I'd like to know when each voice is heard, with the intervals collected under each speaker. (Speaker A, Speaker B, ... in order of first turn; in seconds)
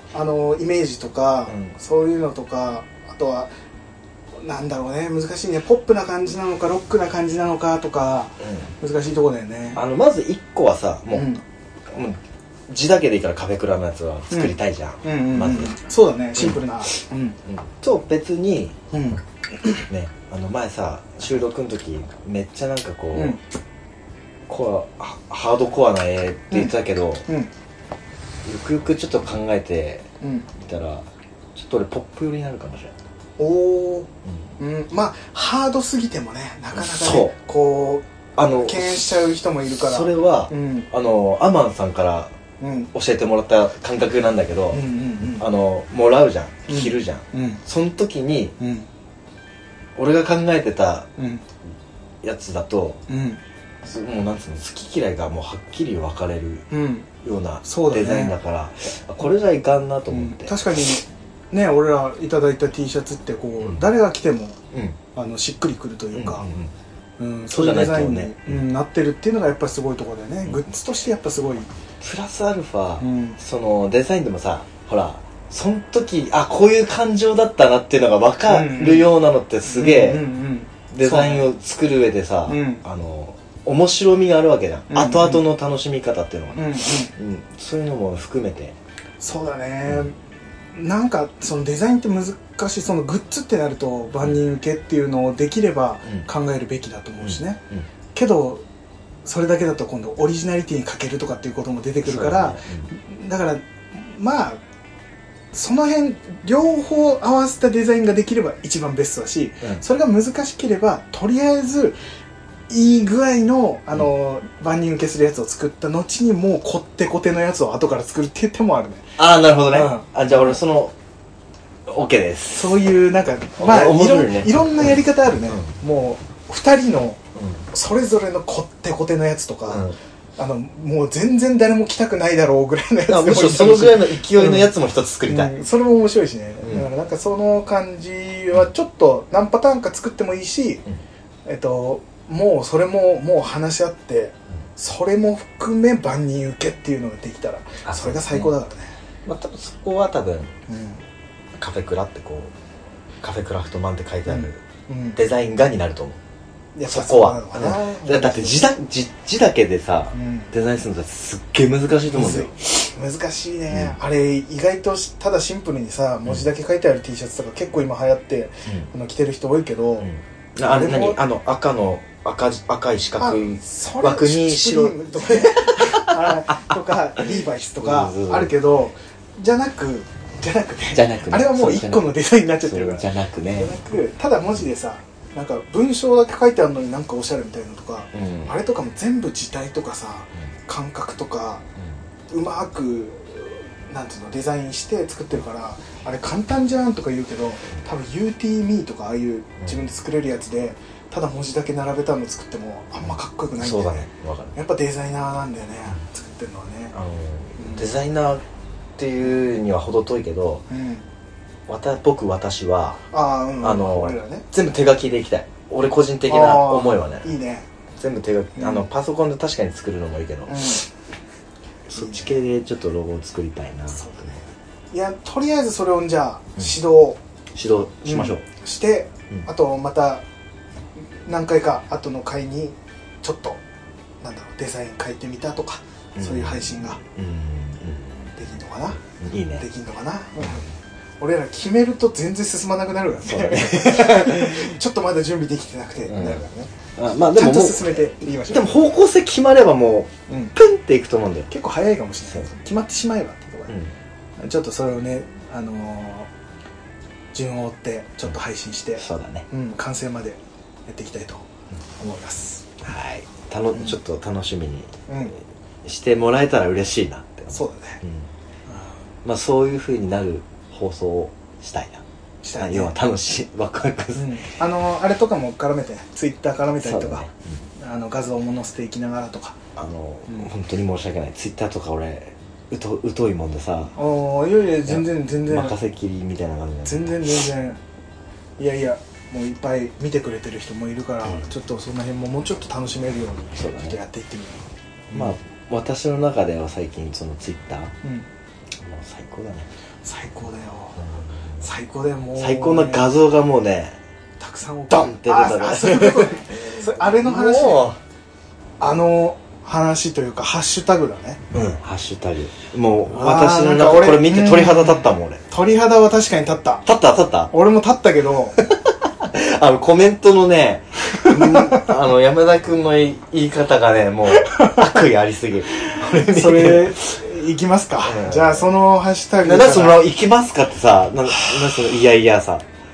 Speaker A: 0.1-3.5, 4.4-9.8, 11.1-11.4, 14.3-17.4, 18.9-19.8, 23.1-23.4, 30.2-30.5, 33.4-40.9, 42.6-42.9, 44.7-45.5, 46.7-47.6, 48.6-48.9, 51.2-51.4, 53.1-53.4, 56.7-57.1, 57.6-58.3, 60.1-64.6, 65.1-66.5, 67.2-71.7, 73.0-73.4, 78.5-79.1, 79.7-81.5, 82.5-82.8, 84.9-85.4, 86.5-87.1, 89.2-90.2, 90.7-97.6, 98.1-98.6, 99.2-104.6, 105.5-112.0, 112.7-120.6, 122.5-127.2, 127.7-129.8, 130.4-134.7, 135.3-140.8, 141.4-148.9, 150.7-151.0, 154.3-155.2, 156.7-158.6, 160.1-160.5, 162.1-170.1, 170.6-171.2, 173.2-191.7, 192.3-206.9, 207.6-208.0, 210.7-211.0, 213.1-214.4, 216.3-217.7, 218.6-218.8, 220.5-220.8, 221.9-222.4, 223.9-227.2, 228.0-230.2, 231.2-233.6, 234.2-237.0, 238.3-239.0, 239.6-240.7, 241.2-246.7, 247.3-248.9, 250.3-250.5, 251.5-253.8, 254.4-256.3, 257.3-261.5, 262.0-262.7, 265.1-265.3, 267.5-268.0, 272.4-272.9, 274.1-277.3, 277.8-279.6, 283.9-285.8, 286.8-287.8, 288.6-295.3, 300.0-301.1, 301.6-303.2, 304.4-307.9, 308.8-311.4, 313.1-316.9, 317.5-318.6, 321.1-321.9, 324.4-324.8, 325.7-330.0, 331.3-331.8
Speaker B: 1.5-1.7, 8.4-8.7, 9.7-11.3, 11.9-15.8, 16.3-16.6, 17.4-18.8, 19.9-23.4, 24.5-27.2, 28.4-32.9, 36.7-37.3, 38.4-39.0, 39.8-42.3, 42.9-48.5, 50.0-51.1, 52.2-53.0, 53.8-56.6, 57.2-60.6, 64.7-65.0, 66.1-66.7, 67.5-68.6, 72.0-80.2, 80.9-88.8, 97.2-97.9, 102.0-102.9, 119.2-120.9, 121.9-122.8, 123.6-125.7, 127.3-127.6, 129.7-130.0, 133.1-135.5, 136.6-136.9, 147.8-148.5, 149.2-150.5, 151.6-152.5, 153.2-154.6, 155.2-156.2, 156.9-162.9, 163.7-164.0, 170.0-176.7, 177.8-178.5, 180.9-183.7, 188.1-188.5, 203.0-204.6, 206.9-208.4, 209.0-210.6, 211.7-213.0, 213.6-217.3, 218.0-220.8, 221.9-224.1, 227.5-228.4, 236.2-238.4, 239.0-239.6, 240.4-240.7, 243.2-244.8, 246.1-246.4, 246.9-251.5, 259.0-259.4, 262.8-265.0, 265.8-268.3, 269.2-272.0, 272.6-274.3, 276.8-277.6, 279.8-283.9, 284.9-287.1, 293.6-293.9, 295.1-297.9, 298.8-299.7, 301.0-301.6, 302.4-304.0, 304.9-308.0, 311.5-315.4, 316.9-317.5, 318.6-327.0, 328.0-328.6, 329.4-332.6